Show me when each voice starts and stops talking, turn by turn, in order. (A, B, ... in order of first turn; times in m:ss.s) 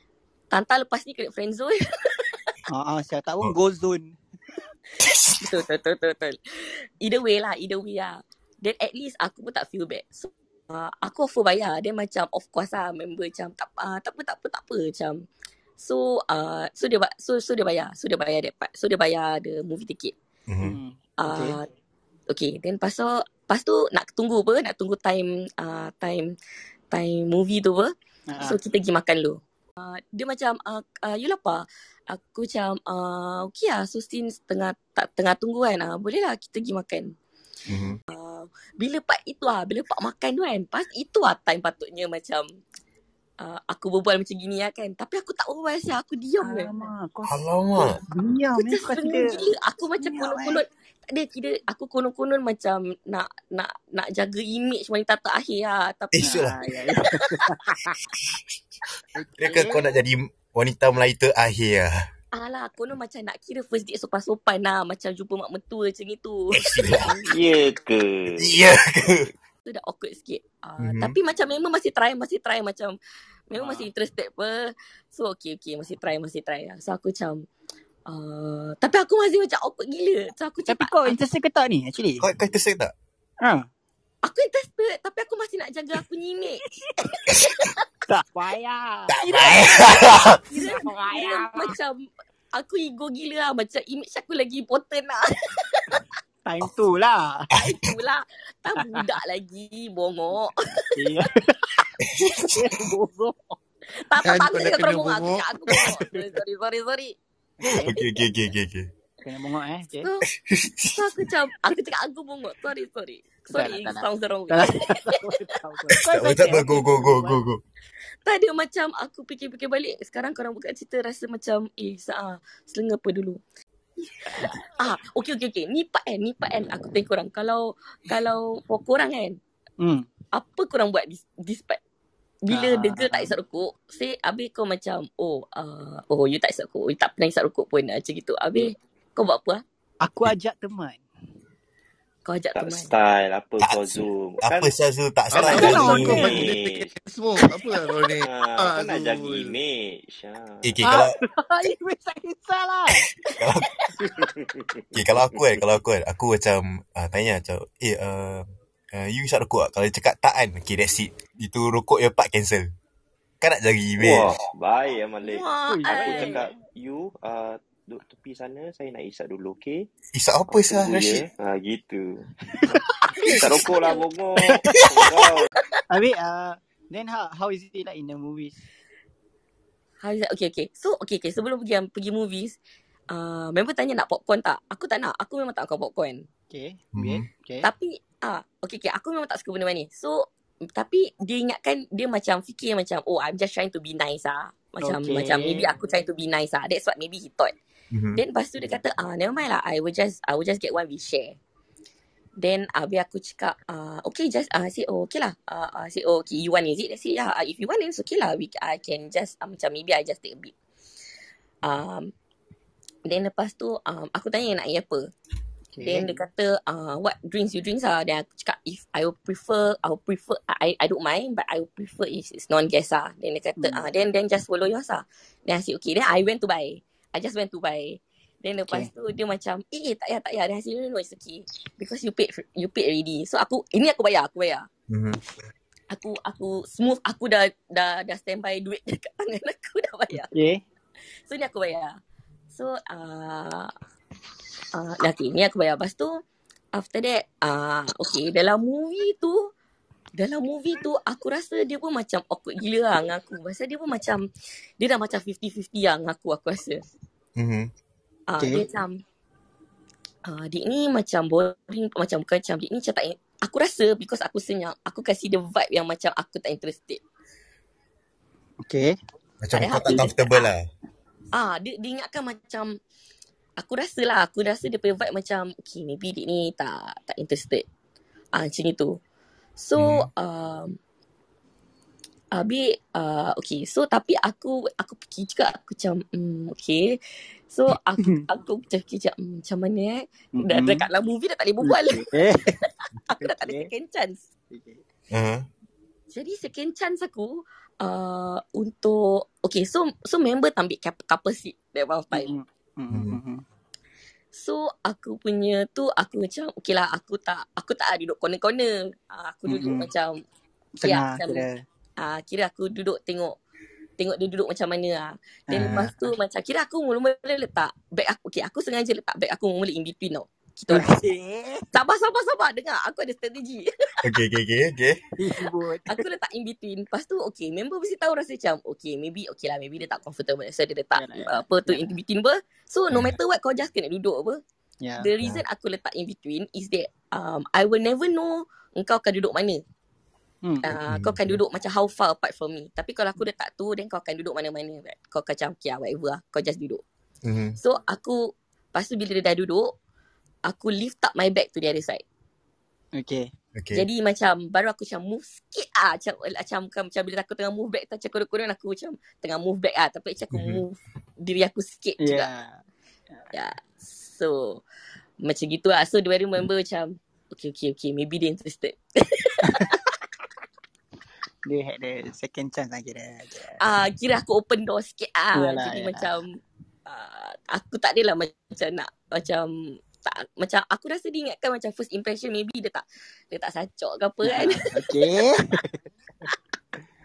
0:00.5-0:02.5 A
0:02.7-0:04.2 B
0:05.0-0:05.6 C
0:05.4-0:06.4 A
0:07.0-0:15.2 A
0:15.8-0:20.1 A
0:20.5-0:20.8 C
0:20.6-0:21.6 B
0:21.2-0:21.7 A
0:22.3-0:26.4 A
0:26.9-0:37.1 A
0:28.3-0:28.6 B
0:37.7-0:38.0 C
0:38.1-0:42.4 A
0:43.4-0:46.9 A
0:46.4-0:49.4 B
0:47.3-0:48.0 C
0:48.6-0:56.5 A
0:50.0-0:50.6 B
0:56.1-0:56.6 C
0:56.2-0:58.0 B
0:59.2-0:59.8 B
0:59.4-1:02.1 C
0:59.5-0:59.8 A
1:02.3-1:07.2 A
1:06.5-1:07.2 C
1:07.2-1:08.5 D
1:08.4-1:09.3 C
1:09.6-1:13.0 A
1:10.8-1:11.2 C
1:13.5-1:17.4 A
1:13.5-1:13.8 B
1:18.0-1:21.2 A
1:20.7-1:22.3 B
1:22.2-1:22.9 C
1:23.4-1:23.7 B
1:24.2-1:26.6 A
1:27.4-1:27.7 A
1:28.1-1:29.2 B
1:29.1-1:30.4 C
1:29.2-1:36.1 A
1:30.5-1:31.7 B
1:36.4-1:37.5 B
1:37.5-1:37.9 C
1:37.5-1:40.8 A
1:38.8-1:39.0 B
1:40.9-1:41.9 B
1:42.0-1:42.6 C
1:42.5-1:43.6 B
1:44.0-1:47.2 A
1:44.2-1:45.9 E
1:47.6-1:48.0 B
1:47.8-1:48.9 C
1:47.9-1:48.1 A
1:49.2-1:50.1 B
1:50.4-1:51.3 C
1:50.9-1:55.3 A
1:53.5-1:57.4 B
1:56.0-1:57.6 C
1:58.2-2:03.4 A
2:04.2-2:04.7 B
2:04.3-2:09.4 A
2:09.8-2:10.1 B
2:10.3-2:11.8 A
2:12.4-2:19.6 A
2:12.5-2:13.3 B
2:20.0-2:21.0 B
2:22.2-2:22.9 A
2:22.5-2:24.7 D
2:23.6-2:26.3 C
2:25.3-2:26.9 D
2:25.4-2:26.5 B
2:25.4-2:29.6 E
2:28.2-2:30.9 D
2:30.6-2:31.1 C
2:30.8-2:33.1 B
2:33.4-2:33.7 C
2:34.0-2:35.5 D
2:34.9-2:42.7 C
2:43.4-2:44.3 C
2:44.0-2:49.9 D
2:45.2-2:46.4 A
2:45.7-2:46.6 B
2:50.1-2:51.2 C
2:50.5-2:55.5 D
2:52.5-2:53.4 B
2:53.2-2:53.6 C
2:53.6-2:54.0 A
2:54.4-2:54.8 B
2:55.9-2:58.6 B
3:00.0-3:02.6 A
3:03.1-3:06.2 A
3:06.5-3:07.7 B
3:06.9-3:07.3 C
3:07.6-3:17.5 A
3:14.8-3:15.8 B
3:17.9-3:18.2 C
3:18.1-3:21.4 A
3:22.4-3:30.5 A
3:31.6-3:32.1 A
3:33.0-3:35.1 A
3:35.7-3:36.1 B
3:35.8-3:54.7 A
3:43.6-3:43.8 B
3:54.9-3:55.2 C
3:55.9-4:00.3 A
4:00.2-4:00.6 B
4:01.3-4:02.0 A
4:02.5-4:03.7 A
4:04.7-4:06.2 A
4:06.7-4:09.5 A
4:10.2-4:14.2 A
4:14.8-4:16.8 A
4:17.4-4:17.7 C
4:18.3-4:19.0 A
4:18.4-4:18.7 B
4:20.2-4:27.0 A
4:28.6-4:28.9 B
4:29.4-4:30.6 C
4:29.5-4:30.5 A
4:31.3-4:32.8 A
4:33.6-4:37.6 A
4:38.3-4:39.0 A
4:39.6-4:40.8 A
4:39.8-4:40.1 C
4:42.3-4:47.0 A
4:47.5-4:54.2 A
4:50.3-4:50.9 B
4:51.6-4:52.6 B
4:53.1-4:53.7 B
4:54.5-4:54.8 B
4:55.1-4:55.5 C
4:56.1-5:02.3 A
5:02.1-5:03.4 B
5:02.9-5:03.2 C
5:04.3-5:10.2 A
5:09.5-5:09.9 B
5:10.8-5:11.6 B
5:10.8-5:11.4 A
5:12.0-5:13.4 A
5:14.0-5:21.0 A
5:15.5-5:15.9 B
5:20.7-5:21.6 B
5:21.7-5:23.7 A
5:24.0-5:25.0 C
5:25.2-5:26.0 B
5:25.9-5:34.4 A
5:30.9-5:31.8 B
5:32.9-5:33.2 C
5:34.8-5:35.1 B
5:35.0-5:39.6 A
5:40.4-5:40.7 B
5:40.6-5:46.8 A
5:40.8-5:41.4 C
5:47.2-5:47.6 C
5:47.6-5:49.7 A
5:50.4-5:52.0 A
5:52.9-5:53.3 B
5:53.6-5:53.8 C
5:53.7-6:02.3 A
6:00.3-6:00.6 C
6:02.0-6:02.6 B
6:03.3-6:04.6 A
6:05.2-6:09.8 A
6:09.4-6:09.8 B
6:11.4-6:13.6 B
6:13.6-6:24.7 A
6:15.3-6:16.1 B
6:24.2-6:25.7 B